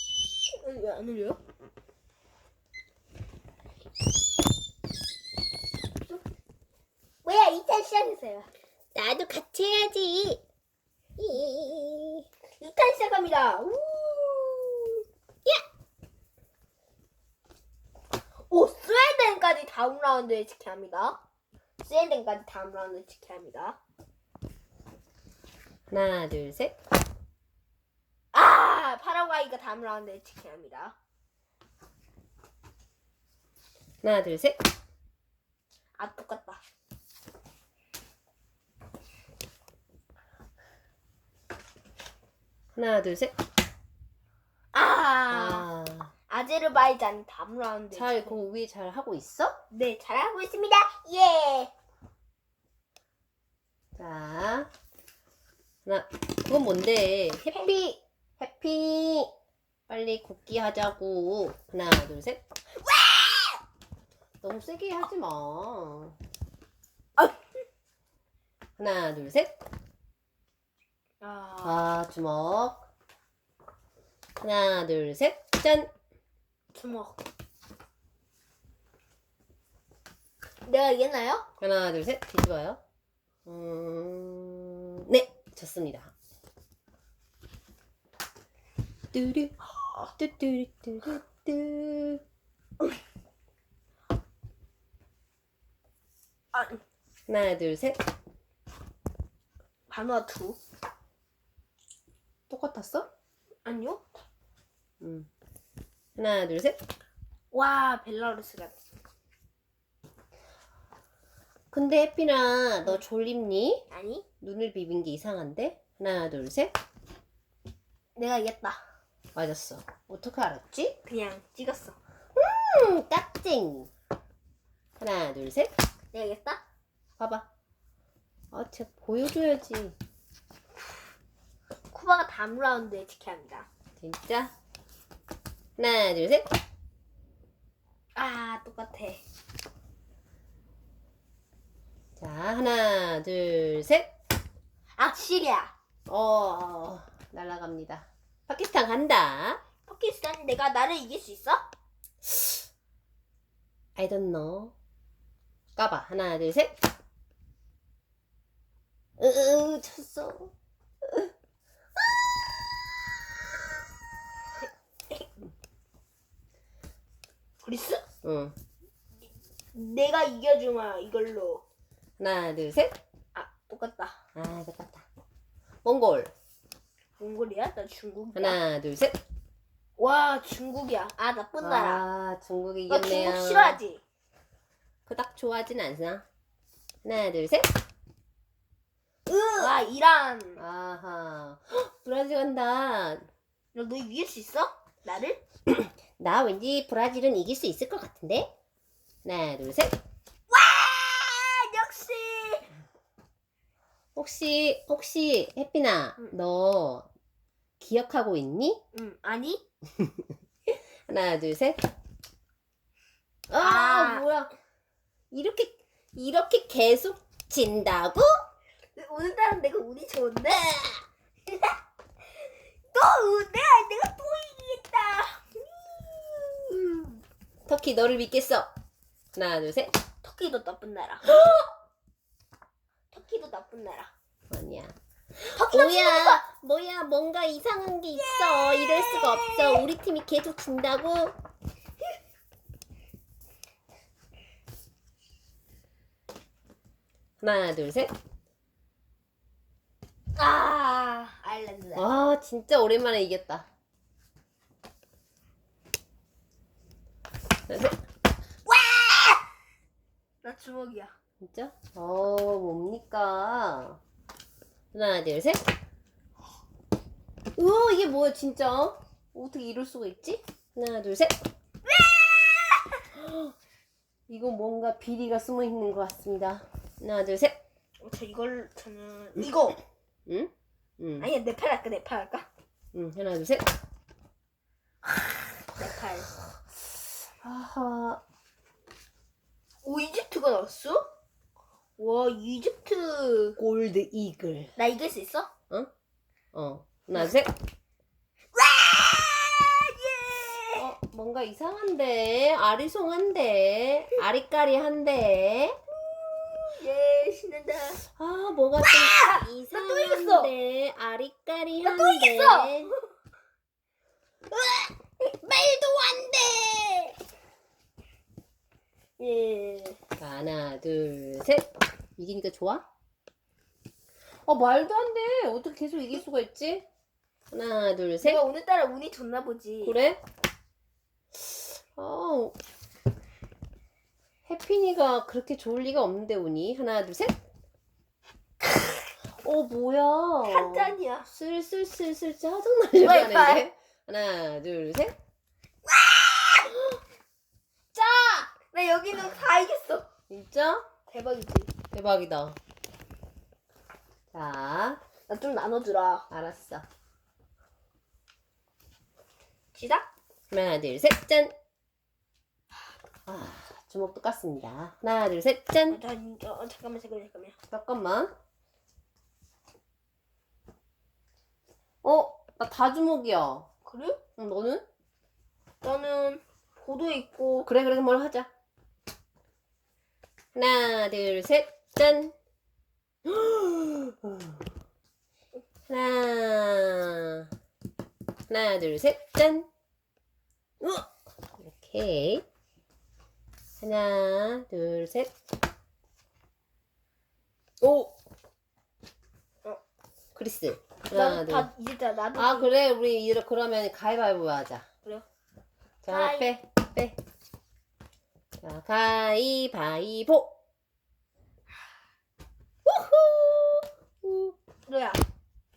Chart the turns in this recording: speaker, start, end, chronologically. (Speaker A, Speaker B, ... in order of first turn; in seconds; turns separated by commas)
Speaker A: 0.5-1.4, Speaker A: 7.2-8.5, Speaker B: 8.9-10.4, Speaker B: 11.2-12.2, Speaker A: 12.6-15.0, Speaker A: 18.5-21.2, Speaker A: 21.8-23.8, Speaker B: 25.9-26.8, Speaker A: 28.3-30.9, Speaker B: 34.0-34.6, Speaker A: 36.0-36.6, Speaker B: 42.8-43.3, Speaker A: 44.7-45.7, Speaker B: 45.3-46.1, Speaker A: 46.3-48.4, Speaker B: 47.9-49.6, Speaker A: 49.7-51.7, Speaker B: 53.9-54.7, Speaker B: 55.8-59.3, Speaker A: 57.5-57.9, Speaker B: 59.9-62.4, Speaker A: 62.8-63.6, Speaker B: 64.4-66.2, Speaker B: 68.8-69.5, Speaker A: 71.2-71.8, Speaker B: 71.6-72.8, Speaker B: 74.4-75.9, Speaker A: 76.7-77.2, Speaker A: 80.7-81.5, Speaker B: 81.6-82.8, Speaker B: 83.5-86.1, Speaker B: 89.1-89.5, Speaker B: 90.2-92.2, Speaker A: 96.5-96.8, Speaker B: 97.3-98.0, Speaker A: 99.9-100.6, Speaker B: 102.5-103.1, Speaker A: 103.6-104.0, Speaker B: 105.0-105.3, Speaker B: 106.2-106.8, Speaker A: 107.5-108.8, Speaker B: 111.7-113.8, Speaker A: 113.9-114.2, Speaker B: 114.4-116.7, Speaker A: 118.2-118.8, Speaker B: 119.3-121.0, Speaker A: 121.0-122.0, Speaker B: 122.3-123.9, Speaker B: 125.0-125.7, Speaker A: 126.1-126.6, Speaker B: 127.2-127.5, Speaker B: 128.5-129.9, Speaker A: 131.9-133.7, Speaker B: 134.0-134.5, Speaker B: 135.8-136.5, Speaker A: 138.2-139.2, Speaker B: 142.2-144.1, Speaker A: 144.9-145.7, Speaker B: 146.1-149.6, Speaker A: 149.8-151.6, Speaker B: 152.2-152.5, Speaker B: 153.9-154.7, Speaker B: 155.8-156.7, Speaker B: 159.2-160.5, Speaker B: 161.0-161.3, Speaker A: 167.6-168.0, Speaker B: 168.2-168.6, Speaker A: 169.7-171.6, Speaker B: 172.2-172.9, Speaker A: 173.3-174.2, Speaker B: 174.3-175.0, Speaker B: 175.8-176.3, Speaker A: 177.2-178.6, Speaker B: 178.3-179.2, Speaker A: 180.0-182.0, Speaker B: 181.6-183.8, Speaker A: 182.9-184.0, Speaker B: 185.1-186.2, Speaker B: 187.0-187.7, Speaker A: 189.3-190.6, Speaker B: 190.6-193.3, Speaker A: 193.7-195.4, Speaker B: 195.7-198.5, Speaker B: 199.2-199.9, Speaker A: 200.5-202.7, Speaker B: 204.1-207.1, Speaker B: 207.8-208.8, Speaker A: 208.9-209.6, Speaker B: 210.7-211.9, Speaker B: 213.5-214.5, Speaker A: 213.6-214.2, Speaker B: 215.3-218.3, Speaker A: 218.9-221.8, Speaker A: 222.9-227.0, Speaker B: 227.7-228.7, Speaker B: 229.3-229.9, Speaker A: 230.2-231.5, Speaker A: 233.1-234.1, Speaker B: 234.5-241.3, Speaker A: 235.5-236.4, Speaker A: 238.2-239.9, Speaker B: 247.4-248.1, Speaker A: 250.4-252.1, Speaker B: 251.9-253.7, Speaker B: 257.7-258.0, Speaker A: 258.7-259.4, Speaker A: 260.4-261.1, Speaker B: 261.4-264.0, Speaker B: 264.9-265.6, Speaker B: 267.6-271.4, Speaker A: 271.9-273.0, Speaker B: 273.1-273.5, Speaker B: 274.3-277.6, Speaker A: 278.0-279.8, Speaker B: 280.3-281.3, Speaker A: 281.2-282.5, Speaker B: 282.9-283.7, Speaker A: 285.7-286.3, Speaker B: 287.4-288.2, Speaker A: 289.8-291.1, Speaker A: 292.0-293.6, Speaker B: 293.6-294.7, Speaker A: 294.8-295.5, Speaker B: 296.5-297.5, Speaker A: 298.5-300.9, Speaker B: 300.8-305.8, Speaker A: 306.0-308.0, Speaker B: 308.0-312.9, Speaker A: 308.8-310.5, Speaker A: 311.8-313.0, Speaker A: 314.5-317.1, Speaker A: 319.2-320.0, Speaker B: 320.2-322.8, Speaker B: 324.4-326.9, Speaker B: 327.5-328.4, Speaker A: 328.2-330.0, Speaker B: 329.8-330.2, Speaker B: 331.3-332.5, Speaker B: 334.5-337.4, Speaker B: 339.4-345.1, Speaker A: 340.4-341.3, Speaker A: 343.0-343.6, Speaker A: 345.9-346.9, Speaker A: 347.9-350.1, Speaker B: 350.3-350.8, Speaker A: 351.1-351.7, Speaker B: 351.9-352.6, Speaker B: 354.3-355.0, Speaker A: 355.3-356.2, Speaker B: 356.3-356.8, Speaker A: 359.7-360.1, Speaker B: 360.5-361.5, Speaker B: 363.3-366.0, Speaker A: 365.9-367.6, Speaker B: 367.7-368.3, Speaker B: 372.0-373.7, Speaker A: 373.8-374.2, Speaker B: 374.4-374.8, Speaker A: 375.8-377.7, Speaker B: 377.6-378.5, Speaker B: 380.5-382.3, Speaker B: 383.2-384.6, Speaker B: 385.9-387.5, Speaker B: 388.5-389.7, Speaker B: 390.8-392.4, Speaker B: 393.8-395.3, Speaker B: 397.8-398.1, Speaker B: 400.4-401.7, Speaker A: 401.1-402.7, Speaker B: 402.3-404.9, Speaker B: 406.0-407.2, Speaker A: 406.1-406.5, Speaker B: 408.6-410.5, Speaker B: 412.9-414.5, Speaker A: 414.9-415.2